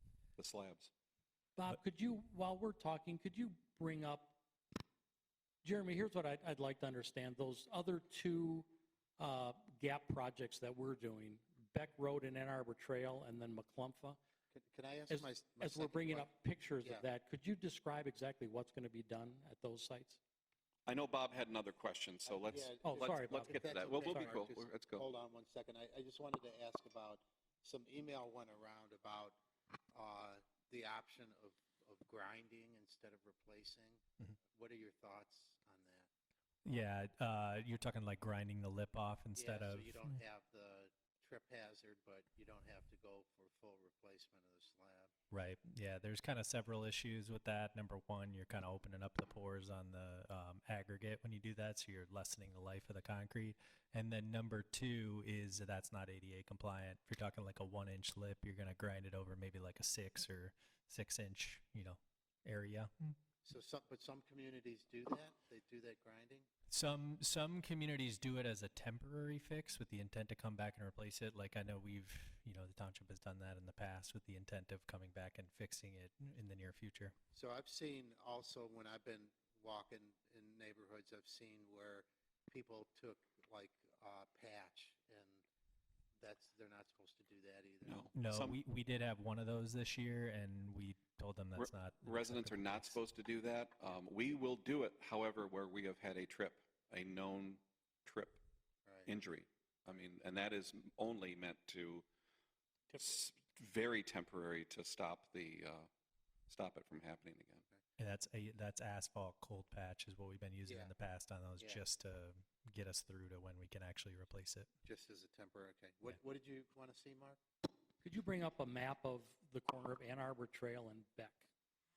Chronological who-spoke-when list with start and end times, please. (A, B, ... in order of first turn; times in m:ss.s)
0:00.4-0:00.9 A
0:01.6-0:04.4 B
0:05.6-0:14.2 B
0:14.5-0:16.3 C
0:15.1-0:20.2 B
0:20.9-0:25.0 A
0:22.3-0:29.4 C
0:22.8-0:24.4 B
0:29.9-0:34.0 C
0:34.5-0:36.1 C
0:36.6-0:40.2 D
0:39.4-0:45.1 C
0:45.3-1:03.1 D
1:03.4-1:06.5 C
1:06.7-1:17.2 D
1:17.3-1:25.5 C
1:26.2-1:28.1 C
1:27.8-1:28.6 A
1:28.1-1:33.0 D
1:31.6-1:38.4 A
1:39.1-1:42.1 A
1:42.9-1:43.2 C
1:43.0-1:45.9 A
1:46.5-1:47.6 A
1:48.0-1:54.7 D
1:50.7-1:50.9 C
1:51.6-1:51.8 C
1:54.9-1:57.4 C
1:58.0-2:01.5 B